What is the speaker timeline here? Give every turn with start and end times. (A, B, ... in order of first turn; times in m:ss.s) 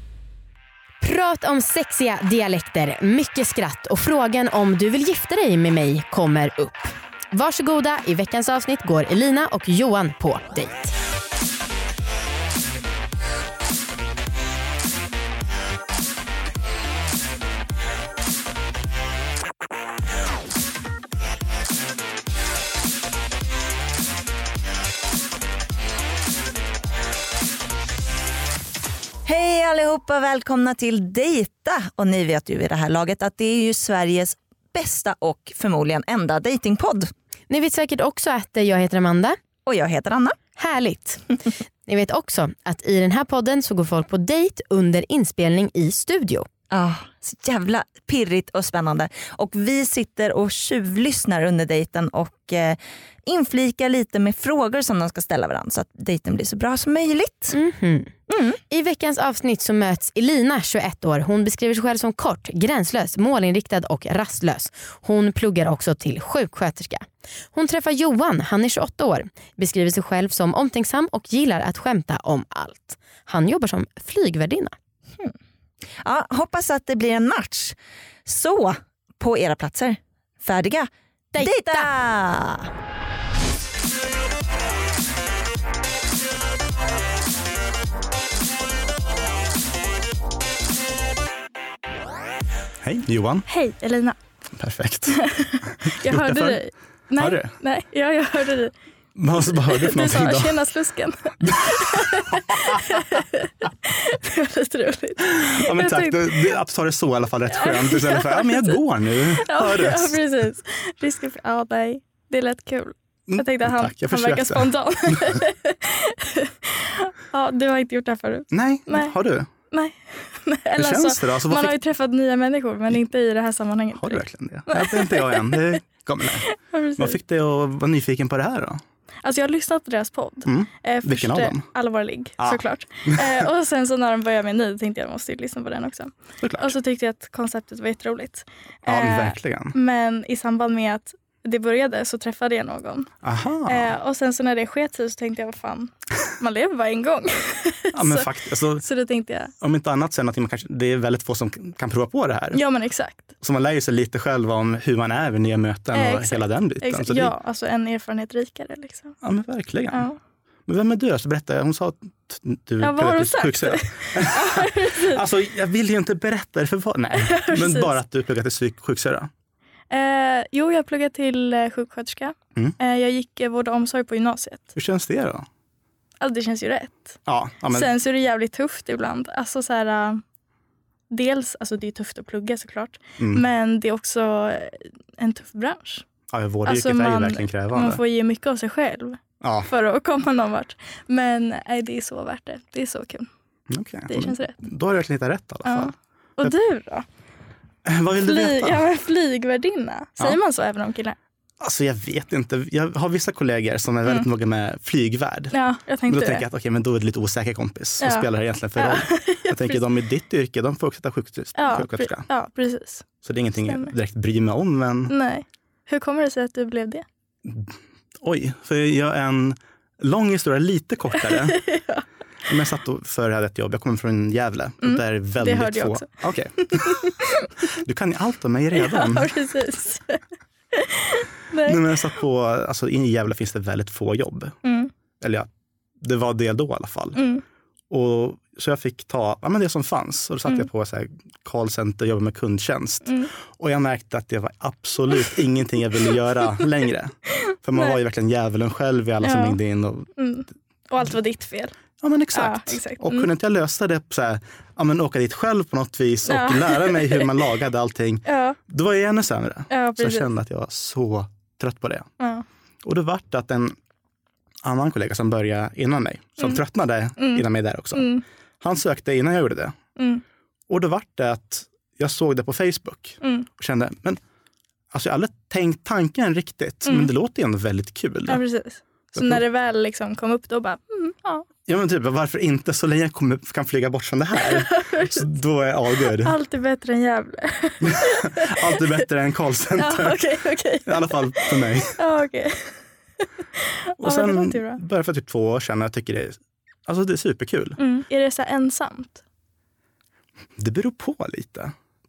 0:01.0-0:11.0 A
0:29.3-0:37.1 B
0:37.5-0:39.4 A
0:39.7-0:40.4 B
0:40.6-0:41.2 A
0:41.9-0:46.5 A
0:46.7-0:57.6 B
0:57.5-0:58.1 A
0:58.3-0:58.6 B
0:58.7-1:14.7 A
1:16.0-1:22.7 B
1:21.3-1:21.9 A
1:32.8-1:33.5 C
1:33.5-1:34.2 D
1:34.6-1:36.6 C
1:35.1-1:38.7 D
1:37.2-1:37.5 C
1:39.2-1:40.6 C
1:39.5-1:46.6 D
1:41.4-1:43.2 C
1:45.4-1:50.2 C
1:47.5-1:59.2 D
1:53.3-1:55.4 C
1:58.5-1:59.5 C
1:59.7-2:05.8 D
2:00.8-2:01.8 C
2:04.0-2:06.5 C
2:06.6-2:07.2 D
2:07.0-2:08.8 C
2:09.2-2:23.1 D
2:10.4-2:11.6 C
2:12.4-2:13.4 C
2:16.4-2:16.7 C
2:18.9-2:19.8 C
2:23.2-2:23.9 C
2:23.7-2:29.5 D
2:27.9-2:28.8 C
2:29.6-2:32.6 C
2:32.5-2:33.3 D
2:33.4-2:37.3 C
2:35.9-2:39.2 D
2:39.2-2:40.1 C
2:39.9-2:40.2 D
2:40.7-2:49.3 C
2:42.8-2:45.2 D
2:47.2-2:47.9 D
2:49.9-2:54.7 D
2:54.8-2:55.5 C
2:56.2-2:57.2 D
2:57.3-2:57.9 C
2:57.7-3:00.2 D
3:01.1-3:06.0 D
3:03.2-3:03.4 C
3:06.3-3:08.0 C
3:06.7-3:13.3 D
3:09.4-3:09.7 C
3:13.7-3:16.6 C
3:14.1-3:14.6 D
3:15.6-3:17.1 D
3:17.8-3:18.8 C
3:18.2-3:21.2 D
3:21.6-3:25.5 C
3:25.5-3:26.4 D
3:26.1-3:32.3 C
3:28.0-3:29.8 D
3:31.6-3:33.1 D
3:33.2-3:35.1 C
3:33.6-3:33.9 D
3:35.1-3:37.0 D
3:37.5-3:41.6 C
3:41.2-3:42.0 D
3:42.5-3:47.1 C
3:44.8-3:46.1 D
3:46.6-3:47.5 D
3:47.7-3:49.4 C
3:48.7-3:50.2 D
3:50.7-3:52.0 D
3:51.7-3:54.6 C
3:54.6-3:54.9 D
3:55.2-3:55.5 C
3:56.0-3:57.2 C
3:57.2-3:57.4 D
3:57.9-4:10.1 C
4:03.1-4:03.3 D
4:09.2-4:09.6 D
4:10.2-4:11.7 D
4:12.0-4:22.1 C
4:12.3-4:13.3 D
4:16.3-4:17.4 D
4:18.3-4:18.6 D
4:19.7-4:20.3 D
4:22.2-4:22.4 D
4:22.8-4:23.8 C
4:24.6-4:29.8 C
4:27.2-4:28.2 D
4:30.0-4:30.2 D
4:30.7-4:34.2 C
4:33.2-4:33.5 D
4:34.9-4:38.4 C
4:36.8-4:37.1 D
4:38.3-4:41.5 D
4:39.2-4:39.4 C
4:41.7-4:46.4 C
4:44.4-4:45.3 D
4:46.1-4:49.0 D
4:47.8-4:50.2 C
4:49.8-4:52.8 D
4:50.8-4:52.0 C
4:53.6-4:54.8 D
4:54.0-4:57.8 C
4:57.8-4:59.2 D
5:00.6-5:01.7 C